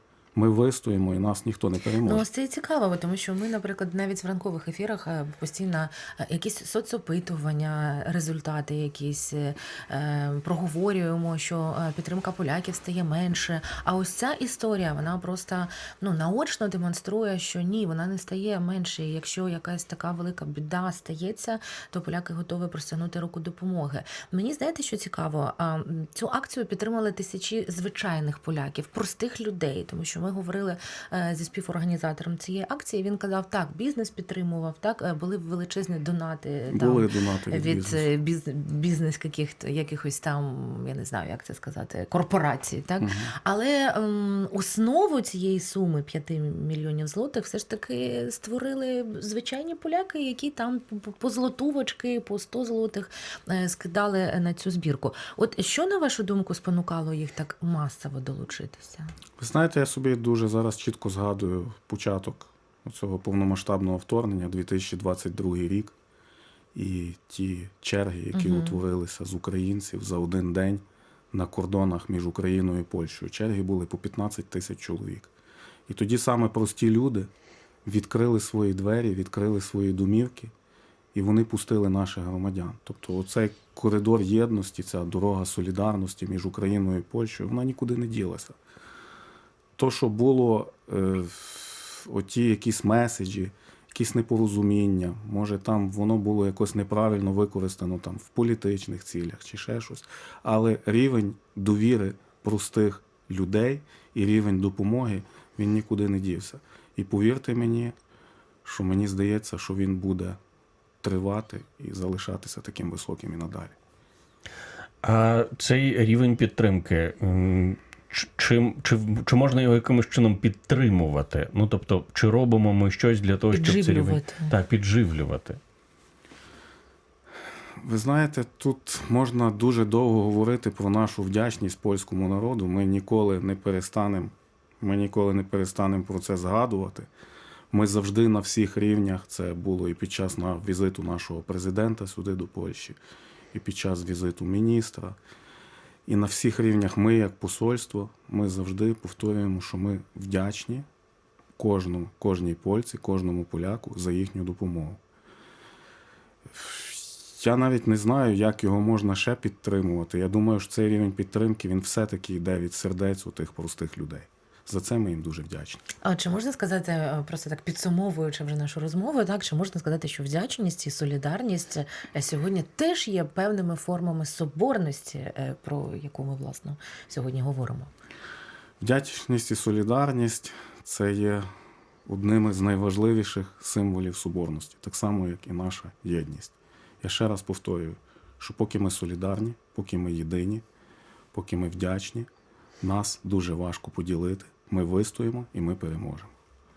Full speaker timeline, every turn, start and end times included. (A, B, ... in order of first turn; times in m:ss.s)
0:00.4-0:02.3 A
0:02.0-0:59.1 B
0:36.7-0:38.1 A
0:43.0-0:43.3 A
0:59.4-1:05.9 A
1:06.7-1:15.3 A
1:08.3-1:08.8 B
1:15.9-1:17.3 A
1:17.8-1:20.5 A
1:21.1-1:28.6 A
1:29.8-1:47.9 A
1:48.6-1:50.4 A
1:51.0-1:53.8 A
1:55.0-2:05.6 C
2:03.5-2:04.5 B
2:07.8-2:17.1 A
2:17.7-2:23.0 A
2:23.5-2:25.2 A
2:26.1-2:30.9 A
2:31.6-2:35.0 A
2:36.5-2:45.9 A
2:46.0-2:57.9 B
2:58.8-3:01.5 A
3:02.1-3:10.6 A
3:11.3-3:12.3 A
3:12.8-3:16.3 A